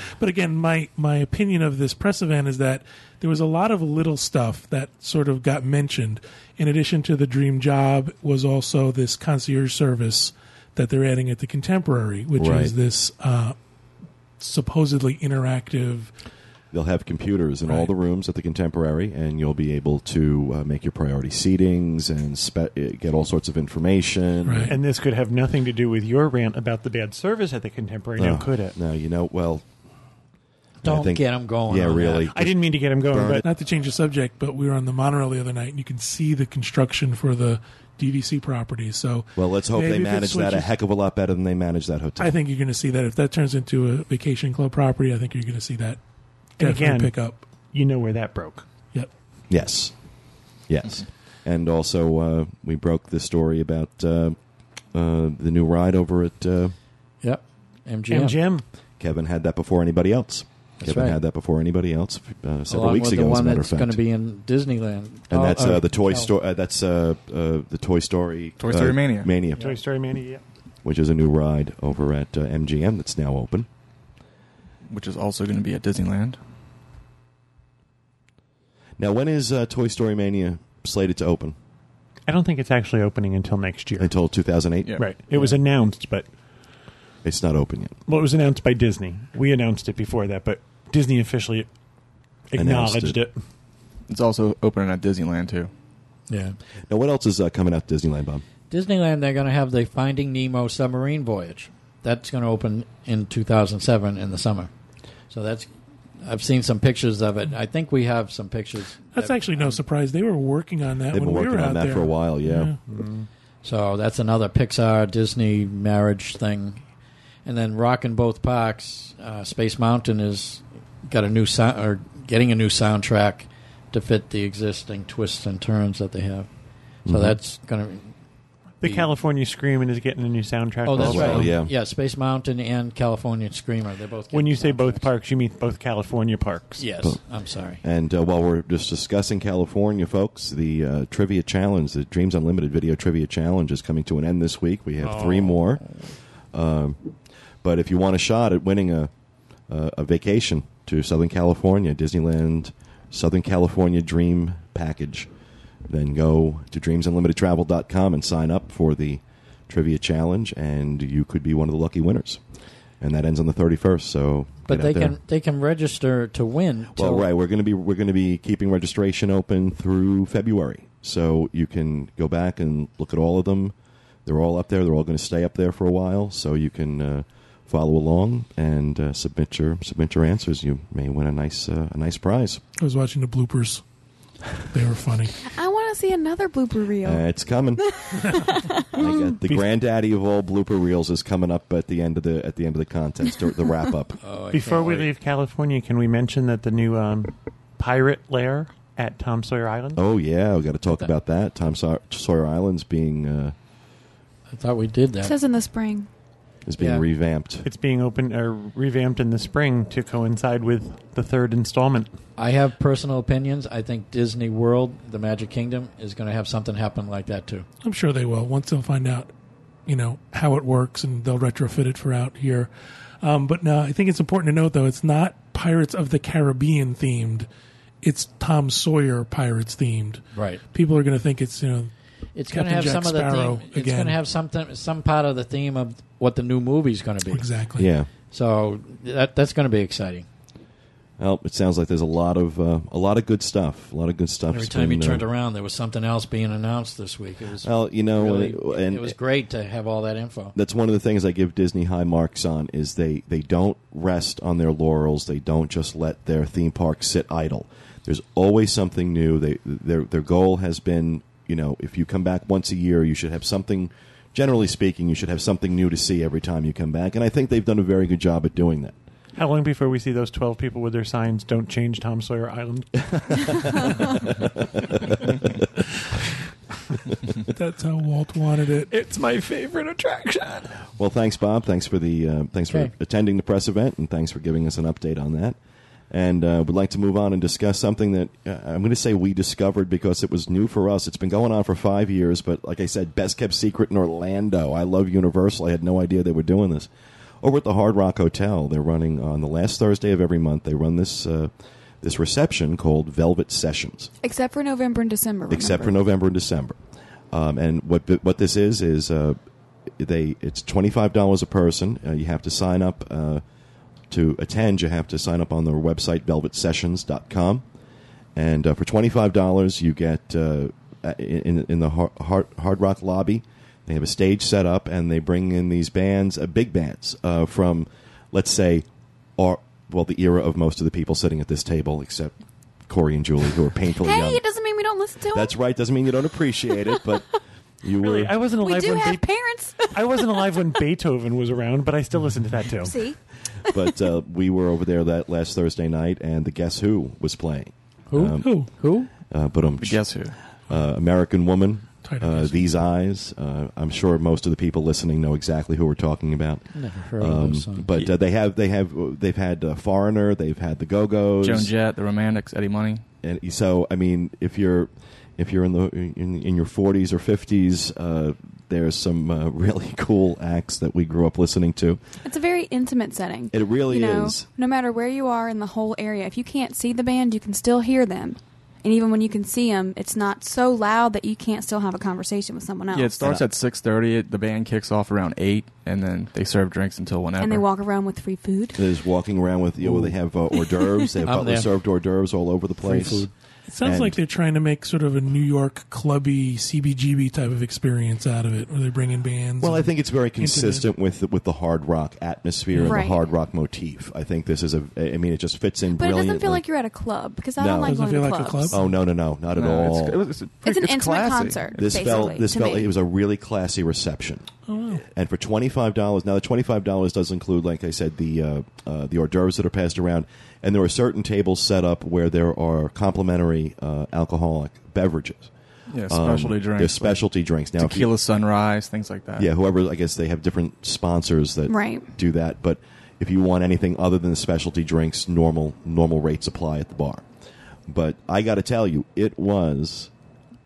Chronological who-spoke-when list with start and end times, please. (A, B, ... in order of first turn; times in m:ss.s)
0:00.2-0:13.6 A
0:12.4-0:12.7 B
0:14.4-0:16.1 A
0:16.7-0:24.7 B
0:24.4-0:24.7 A
0:24.7-0:28.8 C
0:28.2-0:29.7 B
0:30.8-0:32.3 D
0:30.8-0:32.6 B
0:32.3-0:33.4 C
0:33.1-0:33.4 B
0:33.4-0:40.7 A
0:39.4-0:42.3 B
0:42.2-0:46.0 A
0:46.6-0:47.4 A
0:46.6-0:47.1 C
0:47.7-0:48.7 C
0:49.5-0:49.9 B
0:50.7-0:54.4 B
0:54.9-0:56.7 B
0:57.2-0:58.4 D
0:58.1-0:58.6 C
0:59.0-1:04.0 B
1:00.8-1:01.2 D
1:02.7-1:06.3 D
1:05.3-1:09.8 B
1:08.6-1:09.3 E
1:09.6-1:10.4 C
1:10.8-1:13.7 B
1:14.9-1:16.4 E
1:19.0-1:21.5 B
1:22.3-1:24.1 C
1:24.0-1:25.0 B
1:25.0-1:26.3 C
1:27.2-1:28.0 B
1:28.1-1:31.7 C
1:32.5-1:33.4 C
1:32.6-1:33.2 B
1:34.1-1:35.7 E
1:36.3-1:36.6 D
1:36.9-1:38.4 B
1:38.7-1:44.7 D
1:45.3-1:45.7 D
1:46.2-1:49.7 D
1:49.1-1:52.8 A
1:51.1-1:52.7 B
1:52.9-1:53.3 C
1:53.6-1:56.8 D
1:57.4-2:06.5 D
2:07.0-2:07.4 B
2:07.1-2:08.1 D
2:08.8-2:11.6 C
2:08.8-2:09.1 D
2:10.8-2:15.1 D
2:11.0-2:11.7 B
2:14.3-2:16.8 C
2:16.8-2:17.8 D
2:17.8-2:26.0 B
2:25.0-2:26.1 D
2:26.5-2:27.0 B
2:27.6-2:29.1 B
2:29.7-2:35.3 B
2:35.9-2:42.4 B
2:43.0-2:45.2 B
2:44.7-2:47.3 D
2:46.9-2:53.7 B
2:54.2-3:02.6 B
3:02.8-3:03.8 A
3:04.7-3:05.4 A
3:05.4-3:09.1 F
3:07.0-3:08.0 B
3:08.2-3:08.5 A
3:08.9-3:14.2 B
3:14.2-3:15.1 D
3:14.5-3:20.0 C
3:19.9-3:23.5 B
3:24.5-3:25.3 D
3:25.2-3:26.1 F
3:26.6-3:27.6 B
3:26.8-3:27.0 D
3:27.6-3:32.1 C
3:32.4-3:37.6 D
3:37.8-3:39.3 A
3:39.9-3:42.7 A
3:43.2-3:47.5 A
3:48.0-3:51.9 A
3:50.3-3:50.6 D
3:52.4-3:57.5 D
3:52.5-3:54.2 A
3:57.3-3:57.9 A
3:57.8-3:58.1 B
3:58.3-4:00.2 D
4:01.2-4:05.2 B
4:04.5-4:10.6 D
4:07.6-4:09.1 B
4:10.5-4:28.9 B
4:29.3-4:34.3 C
4:33.1-4:35.3 B
4:37.3-4:38.9 A
4:38.9-4:40.8 C
4:41.0-4:45.6 B
4:46.1-4:56.9 B
4:57.4-5:01.5 B
5:02.0-5:04.1 B
5:04.2-5:06.0 F
5:05.5-5:06.8 B
5:07.3-5:09.4 B
5:10.0-5:13.4 B
5:14.1-5:17.6 B
5:18.3-5:28.8 B
5:29.4-5:32.4 B
5:32.9-5:34.4 B
5:34.0-5:35.5 F
5:35.3-5:38.4 B
5:38.0-5:42.9 C
5:38.6-5:40.4 F
5:42.8-5:43.8 F
5:43.7-5:48.7 B
5:48.1-5:49.1 D
5:48.3-5:48.7 A
5:49.3-6:01.7 B
5:49.8-5:50.3 E
5:52.0-5:52.7 A
5:56.7-5:57.9 D
6:01.4-6:03.0 E
6:03.2-6:12.0 B
6:12.2-6:23.2 F
6:13.5-6:14.4 B
6:22.9-6:27.6 E
6:27.4-6:28.8 F
6:28.8-6:33.3 B
6:30.6-6:31.1 F
6:31.2-6:31.7 D
6:32.8-6:33.3 D
6:33.7-6:40.9 A
6:33.8-6:34.2 B
6:39.6-6:46.6 B
6:42.7-6:43.0 A
6:42.8-6:43.2 F
6:46.0-6:48.8 F
6:47.6-6:48.0 B
6:47.8-6:48.9 A
6:48.7-6:50.2 B
6:49.5-6:52.2 E
6:50.6-6:52.9 F
6:51.8-6:54.5 B
6:54.7-6:55.0 A
6:55.1-7:05.5 B
7:05.9-7:07.2 E
7:06.1-7:08.1 B
7:07.8-7:09.5 E
7:09.4-7:17.2 B
7:11.7-7:12.1 F
7:17.9-7:20.1 B